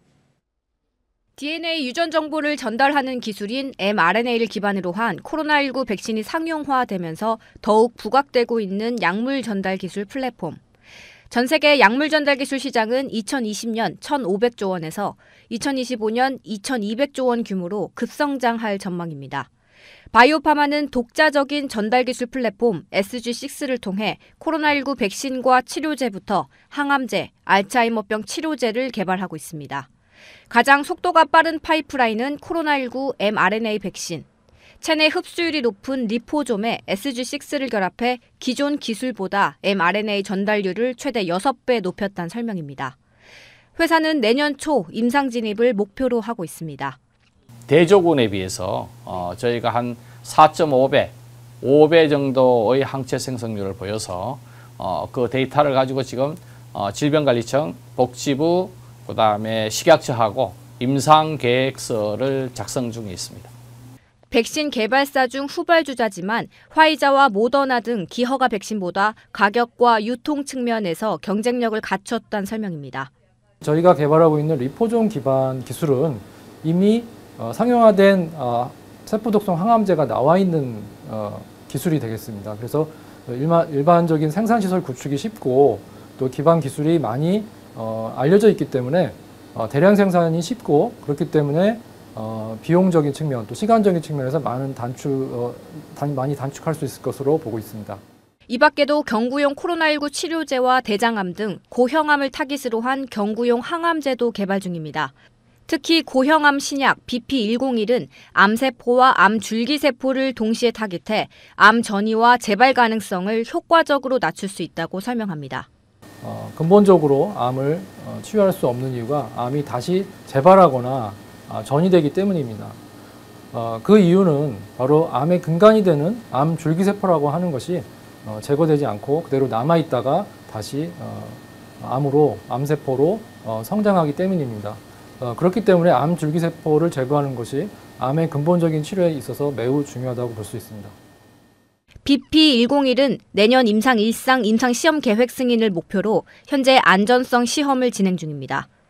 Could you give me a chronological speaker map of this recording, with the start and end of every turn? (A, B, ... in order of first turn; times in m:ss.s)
0:01.4-0:10.6 A
0:11.3-0:19.5 A
0:20.1-0:29.9 A
0:30.5-0:34.2 A
0:34.8-0:43.0 A
0:43.8-0:47.0 A
0:47.7-1:03.5 B
1:04.3-1:13.1 A
1:13.6-1:38.0 C
1:38.5-1:45.1 A
1:45.7-1:55.7 A
1:56.2-2:02.8 C
2:03.5-2:20.9 C
2:22.0-2:28.7 A